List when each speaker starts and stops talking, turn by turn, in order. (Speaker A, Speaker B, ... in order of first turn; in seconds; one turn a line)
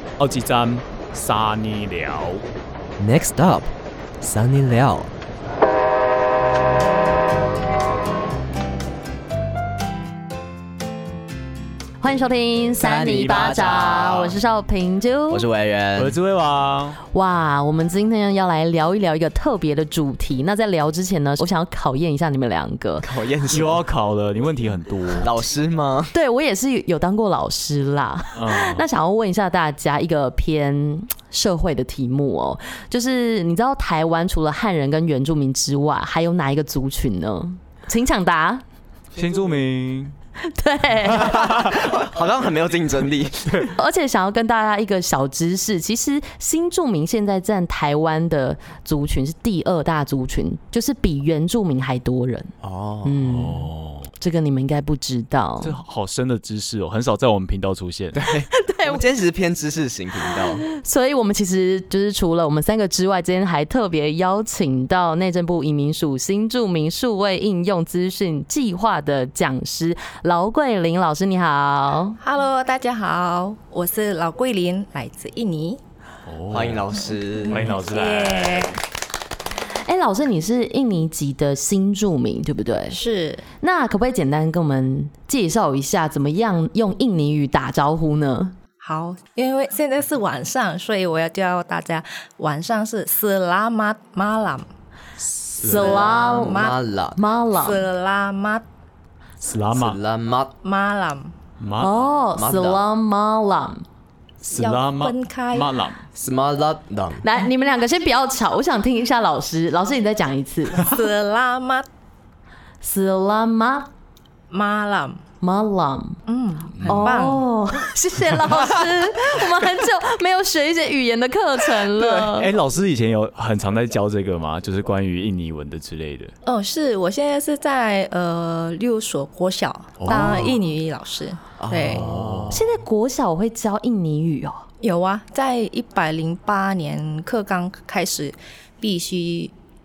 Speaker A: 0.2-2.4
Speaker B: 3.0-5.1
Speaker C: 12.0-15.5
Speaker A: 12.8-14.3
Speaker B: 12.9-13.8
Speaker B: 15.3-16.2
Speaker A: 15.9-17.0
Speaker C: 17.1-23.1
Speaker B: 23.0-23.8
Speaker A: 23.5-25.4
Speaker B: 25.2-26.1
Speaker C: 26.1-38.6
Speaker A: 28.4-28.9
Speaker A: 39.1-40.1
Speaker C: 40.4-41.8
Speaker A: 41.1-41.9
Speaker B: 41.2-43.7
Speaker C: 43.7-52.5
Speaker B: 52.6-53.4
Speaker C: 53.0-55.8
Speaker A: 53.2-54.1
Speaker A: 55.6-58.3
Speaker B: 58.1-60.6
Speaker C: 58.6-59.0
Speaker C: 60.2-72.2
Speaker D: 72.2-75.8
Speaker A: 76.2-76.9
Speaker B: 76.5-77.8
Speaker D: 77.4-78.8
Speaker A: 77.5-78.8
Speaker C: 79.8-83.0
Speaker D: 82.9-83.4
Speaker C: 83.6-88.5
Speaker D: 88.8-94.7
Speaker A: 95.3-95.9
Speaker C: 95.5-97.8
Speaker B: 95.7-97.2
Speaker D: 95.8-96.8
Speaker D: 97.5-98.6
Speaker A: 99.4-100.0
Speaker B: 99.7-100.5
Speaker D: 100.6-101.3
Speaker A: 101.6-102.1
Speaker C: 101.8-103.8
Speaker B: 102.3-102.8
Speaker A: 104.4-106.0
Speaker D: 104.5-105.7
Speaker B: 106.1-107.3
Speaker C: 107.2-110.9
Speaker D: 110.7-111.9
Speaker C: 112.8-113.9
Speaker D: 114.5-115.2
Speaker C: 115.4-116.2
Speaker D: 116.2-117.5
Speaker A: 116.8-117.1
Speaker C: 116.8-122.5
Speaker A: 122.3-126.3
Speaker D: 126.4-132.1
Speaker A: 130.0-130.6
Speaker B: 130.1-130.4
Speaker B: 131.6-132.7
Speaker A: 131.9-132.7
Speaker C: 132.5-134.6
Speaker D: 134.8-139.5